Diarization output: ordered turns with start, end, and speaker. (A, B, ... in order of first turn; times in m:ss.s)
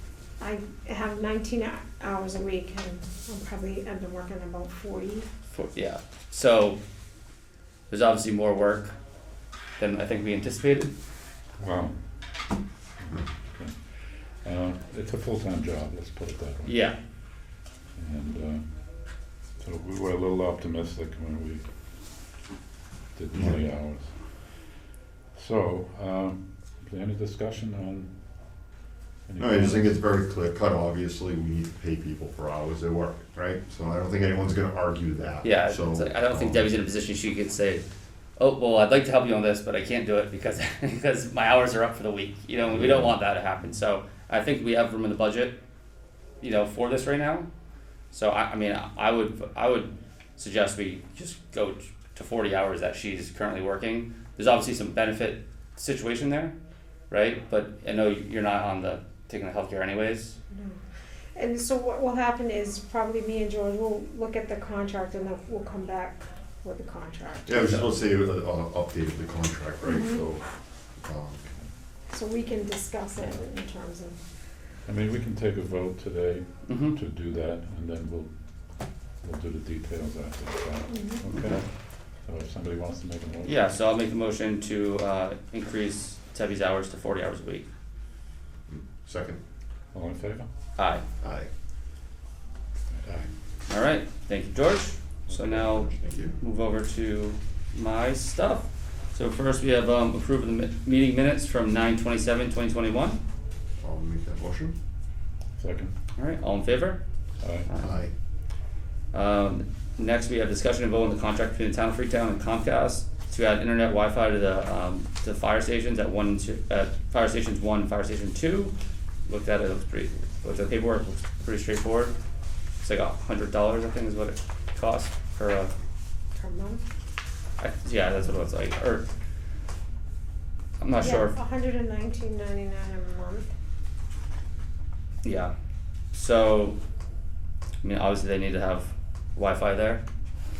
0:00.4-0:05.3 A
0:05.5-0:06.8 B
0:07.9-0:09.0 B
0:09.8-0:10.9 B
0:11.6-0:12.0 C
0:13.0-0:13.8 C
0:14.4-0:16.7 C
0:16.6-0:17.0 B
0:18.0-0:18.6 C
0:19.6-0:21.6 C
0:23.2-0:24.1 C
0:25.4-0:28.1 C
0:29.3-0:30.0 C
0:29.4-0:36.7 D
0:35.4-0:37.8 B
0:38.4-0:45.6 B
0:46.4-0:47.5 B
0:48.1-0:56.6 B
0:57.1-1:00.4 B
1:00.5-1:00.8 A
1:01.4-1:07.5 A
1:07.5-1:10.4 D
1:07.5-1:07.9 B
1:09.8-1:10.2 A
1:11.0-1:11.4 D
1:12.1-1:14.2 A
1:14.9-1:18.3 C
1:16.7-1:17.0 B
1:19.2-1:21.6 C
1:20.9-1:21.3 A
1:21.4-1:21.6 B
1:22.3-1:23.5 C
1:23.4-1:27.7 B
1:28.7-1:29.4 D
1:29.9-1:30.5 C
1:30.8-1:31.0 B
1:31.2-1:31.5 D
1:33.7-1:43.2 B
1:35.3-1:36.4 D
1:43.8-1:44.8 D
1:45.6-1:45.9 C
1:46.2-1:47.0 B
1:47.4-1:47.7 C
1:47.7-1:47.9 B
1:47.8-1:48.1 D
1:49.1-1:58.7 B
1:59.3-2:02.2 B
2:02.8-2:05.7 B
2:06.3-2:06.8 A
2:07.6-2:09.1 B
2:10.8-2:11.4 B
2:11.0-2:13.5 A
2:15.2-2:15.5 B
2:16.1-2:16.8 B
2:17.8-2:20.0 B